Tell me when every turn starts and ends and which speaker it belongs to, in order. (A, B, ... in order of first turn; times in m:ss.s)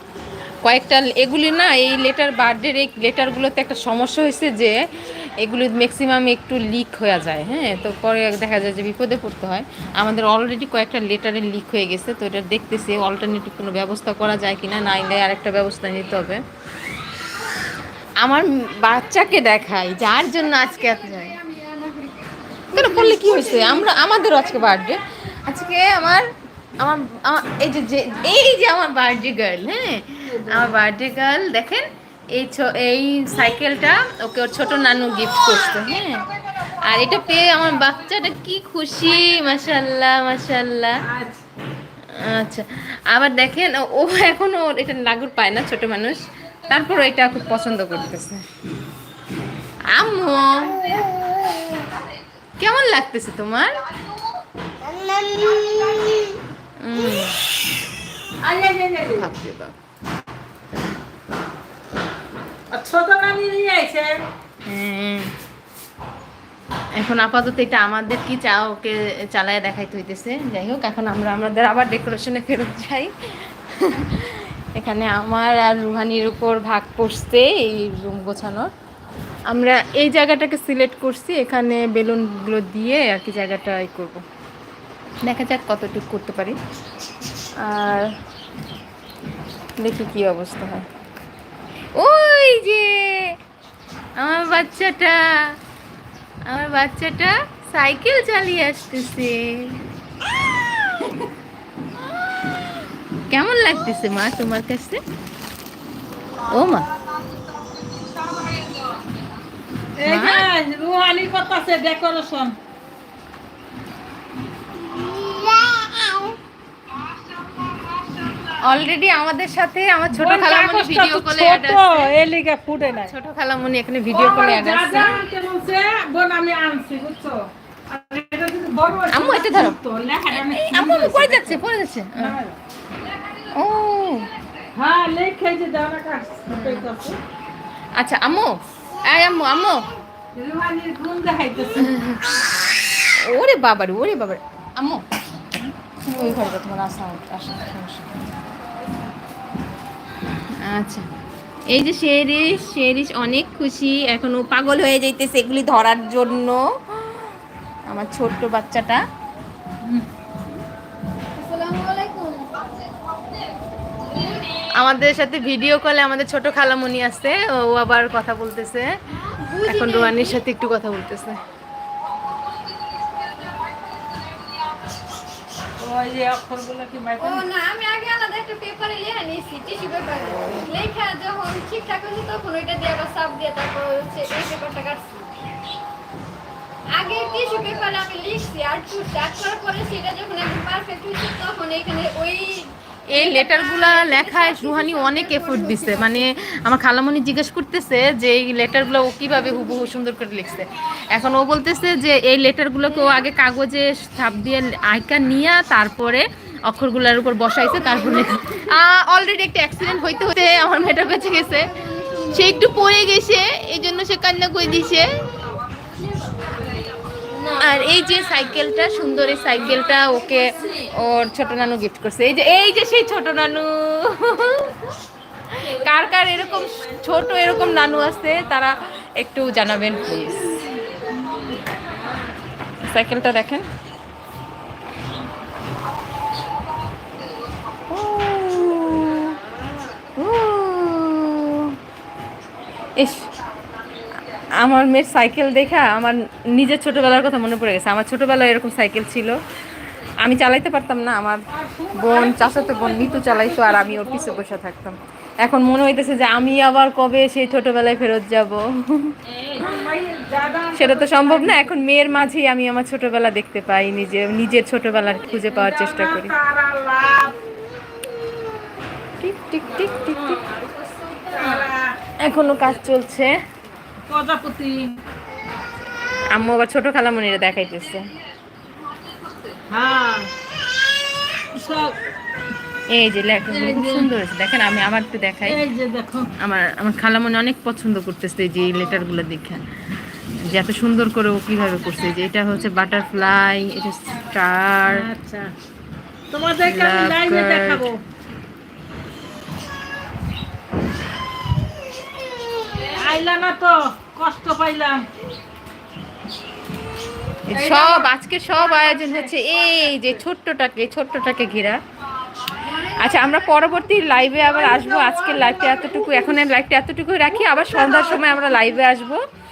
0:00.6-0:16.4 A
0:18.2-0:21.4 A
0:20.6-0:24.1 B
0:22.7-0:26.3 A
0:26.8-0:41.0 A
0:30.3-0:30.8 C
0:41.1-0:41.4 C
0:42.1-0:48.4 A
0:49.9-0:51.1 A
0:52.6-0:53.8 A
0:55.3-0:56.3 C
0:56.8-0:57.4 A
0:58.4-0:59.3 C
0:59.1-0:59.8 A
1:02.7-1:04.2 C
1:04.6-1:05.3 A
1:07.0-1:18.7 A
1:19.5-1:24.2 A
1:25.2-1:26.6 A
1:27.6-1:28.1 A
1:29.8-1:30.9 A
1:32.0-1:33.4 A
1:34.2-1:35.6 A
1:36.5-1:39.8 A
1:43.3-1:45.0 A
1:46.5-1:46.9 A
1:48.3-1:48.9 C
1:50.0-1:52.6 C
1:50.0-1:50.5 A
1:58.6-2:02.1 A
2:00.1-2:03.1 C
2:03.1-2:05.1 A
2:04.1-2:11.6 C
2:09.1-2:09.8 A
2:10.3-2:12.4 A
2:12.2-2:12.6 C
2:13.5-2:14.3 A
2:14.8-2:17.2 C
2:16.5-2:16.9 A
2:18.0-2:19.8 A
2:20.4-2:21.9 C
2:21.8-2:22.4 A
2:23.0-2:25.0 A
2:26.0-2:28.1 A
2:30.6-2:31.1 A
2:31.7-2:37.3 A
2:37.9-2:39.0 A
2:41.4-2:42.6 B
2:44.1-2:44.5 B
2:44.8-2:48.9 A
2:49.3-2:50.4 B
2:49.6-2:51.4 A
2:55.8-2:57.5 C
2:57.2-3:05.3 B
3:06.9-3:16.3 B
3:13.1-3:31.7 A
3:22.9-3:23.3 B
3:27.7-3:28.6 B
3:30.6-3:32.7 B
3:32.3-3:35.2 A
3:37.2-3:37.8 B
3:37.5-3:44.8 A
3:39.9-3:40.9 B
3:45.5-3:50.6 A
3:52.9-3:53.7 A
3:57.9-3:59.4 A
4:00.2-4:01.8 A
4:03.0-4:03.3 A
4:04.6-4:09.4 A
4:10.2-4:19.2 A
4:11.5-4:14.4 C
4:19.4-4:21.7 C
4:20.7-4:26.3 A
4:25.4-4:27.4 C
4:29.2-4:30.4 A
4:30.9-4:31.1 B
4:31.2-4:32.0 C
4:32.2-4:33.3 A
4:34.1-4:35.0 C
4:36.3-4:38.1 A
4:39.7-4:40.3 C
4:41.5-4:42.0 C
4:42.9-4:45.6 A
4:43.5-4:44.1 C
4:45.4-4:46.3 C
4:46.4-4:49.6 A
4:50.4-4:55.1 A
4:54.9-4:55.5 C
4:56.3-4:58.0 C
4:56.6-4:57.9 A
5:02.9-5:05.1 C
5:07.5-5:11.8 A
5:07.5-5:09.3 C
5:12.6-5:14.0 B
5:12.9-5:19.2 A
5:14.4-5:16.2 C